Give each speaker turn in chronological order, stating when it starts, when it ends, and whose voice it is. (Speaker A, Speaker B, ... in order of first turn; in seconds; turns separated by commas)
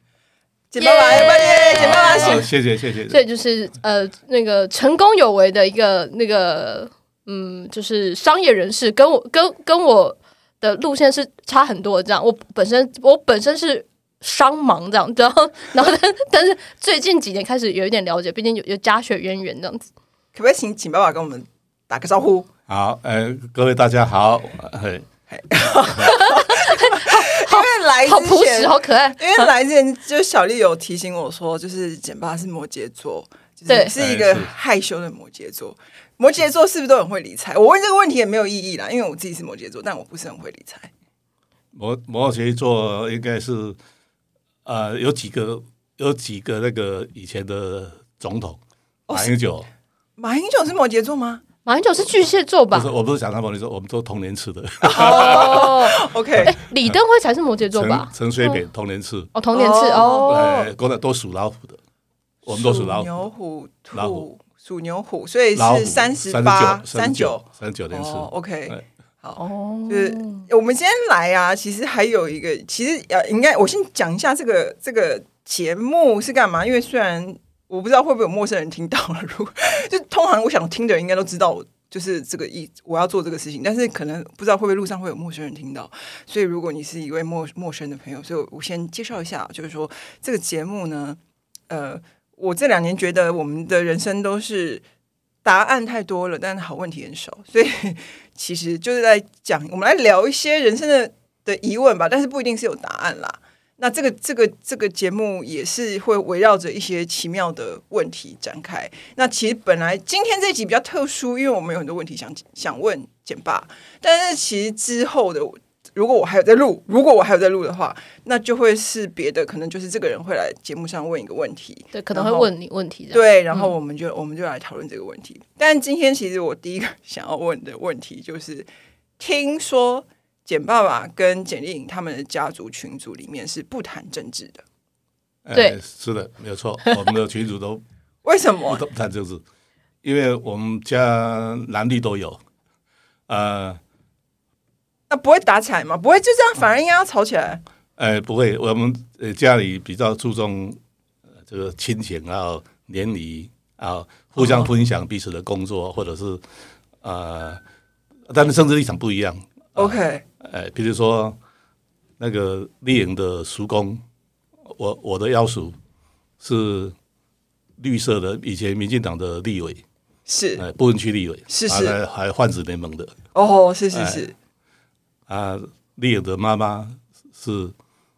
Speaker A: 0.7-2.4, Speaker B: 0.8-2.5, Speaker C: 1.7-3.2, Speaker B: 3.1-19.9, Speaker A: 20.3-22.5, Speaker C: 22.7-25.1, Speaker A: 25.3-40.9, Speaker B: 26.0-29.5, Speaker B: 33.7-33.9, Speaker C: 33.9-34.5, Speaker C: 41.7-43.8, Speaker C: 44.6-48.6, Speaker A: 49.1-49.3, Speaker C: 49.1-49.7, Speaker A: 50.2-51.4, Speaker B: 51.6-52.9, Speaker C: 52.7-55.7, Speaker A: 54.9-56.5, Speaker B: 54.9-58.6, Speaker C: 57.7-59.3, Speaker B: 59.3-60.7, Speaker A: 59.5-60.5, Speaker C: 60.2-61.8, Speaker A: 62.4-94.8, Speaker C: 62.5-63.1, Speaker C: 63.9-64.2, Speaker C: 65.5-68.8, Speaker B: 69.4-70.4, Speaker A: 95.4-122.5, Speaker B: 121.9-123.7, Speaker A: 123.1-128.7, Speaker A: 129.2-134.6, Speaker C: 135.4-137.8, Speaker A: 138.2-138.8, Speaker C: 138.7-139.4, Speaker C: 140.0-142.4, Speaker C: 143.3-143.8, Speaker A: 145.1-147.6, Speaker C: 148.0-150.8, Speaker C: 151.5-156.4, Speaker A: 154.4-154.7, Speaker C: 157.0-157.6, Speaker C: 158.3-161.4, Speaker A: 159.8-160.2, Speaker C: 162.2-164.0, Speaker C: 164.7-165.8, Speaker C: 166.4-166.9, Speaker C: 167.8-169.8, Speaker A: 170.3-170.6, Speaker C: 170.6-173.2, Speaker A: 171.5-172.0, Speaker A: 173.3-174.3, Speaker C: 173.9-174.2, Speaker C: 175.3-177.7